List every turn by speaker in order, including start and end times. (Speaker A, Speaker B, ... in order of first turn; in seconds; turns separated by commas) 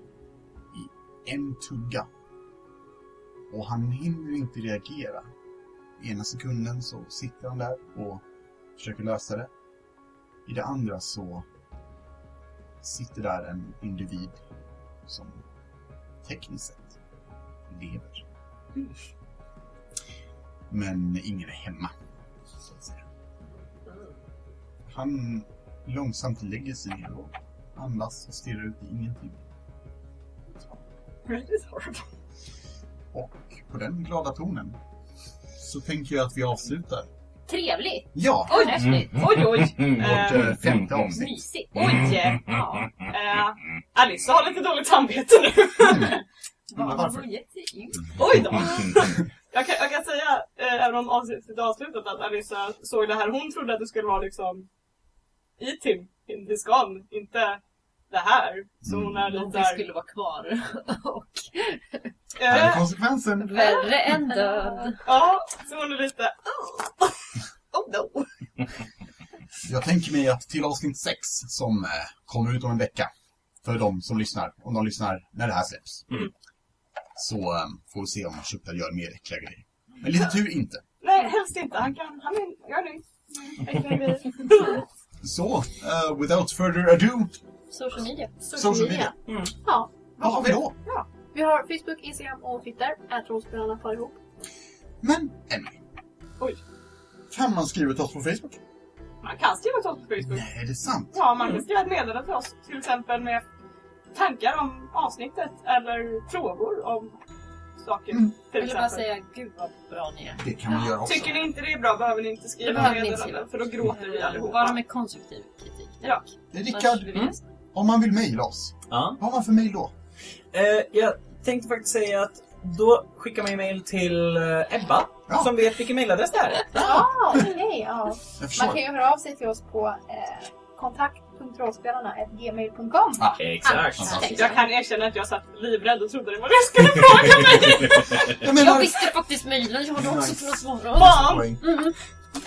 Speaker A: 0.7-2.1, Speaker A: 3.5-5.3, Speaker A: 6.0-8.2, Speaker A: 8.8-9.5, Speaker A: 10.4-11.4, Speaker A: 12.8-14.4, Speaker A: 15.1-15.4, Speaker A: 16.2-17.0, Speaker A: 17.7-18.2, Speaker A: 20.7-21.9, Speaker A: 24.9-29.4, Speaker B: 31.2-32.0, Speaker A: 33.1-34.8, Speaker A: 35.6-37.1, Speaker C: 37.5-39.3, Speaker A: 38.1-38.6, Speaker B: 38.5-40.6, Speaker A: 39.9-41.4, Speaker C: 41.1-42.9, Speaker B: 41.7-46.2, Speaker A: 45.8-46.1, Speaker C: 46.7-48.6, Speaker A: 46.7-47.3, Speaker B: 48.1-54.7, Speaker B: 55.6-59.9, Speaker A: 58.8-59.3, Speaker C: 59.3-62.1, Speaker B: 62.4-62.9, Speaker A: 62.4-63.5, Speaker C: 63.4-65.0, Speaker B: 64.1-67.2, Speaker B: 67.7-68.3, Speaker A: 69.6-73.1, Speaker A: 73.6-76.2, Speaker A: 77.1-80.8, Speaker B: 81.0-84.8, Speaker A: 85.2-87.3, Speaker C: 87.7-89.0, Speaker A: 88.5-89.1, Speaker D: 88.5-89.1, Speaker D: 89.6-89.9, Speaker B: 90.2-91.1, Speaker A: 90.2-90.7, Speaker D: 91.3-94.2, Speaker A: 95.0-95.8, Speaker A: 97.3-98.6, Speaker B: 99.2-100.5, Speaker A: 100.2-101.3, Speaker B: 101.1-103.4, Speaker B: 104.1-107.2, Speaker B: 107.8-109.1, Speaker C: 108.5-110.4, Speaker A: 110.4-111.5, Speaker B: 110.9-114.8, Speaker C: 112.6-117.4, Speaker A: 116.5-117.2, Speaker A: 117.7-119.9, Speaker E: 118.9-119.2, Speaker E: 120.5-127.0, Speaker D: 126.7-134.4, Speaker A: 128.4-128.8, Speaker A: 133.2-134.3, Speaker E: 133.3-134.2, Speaker C: 134.0-134.7, Speaker B: 134.3-138.3, Speaker A: 138.3-139.1, Speaker C: 138.5-141.9, Speaker A: 139.9-141.6, Speaker B: 140.9-141.5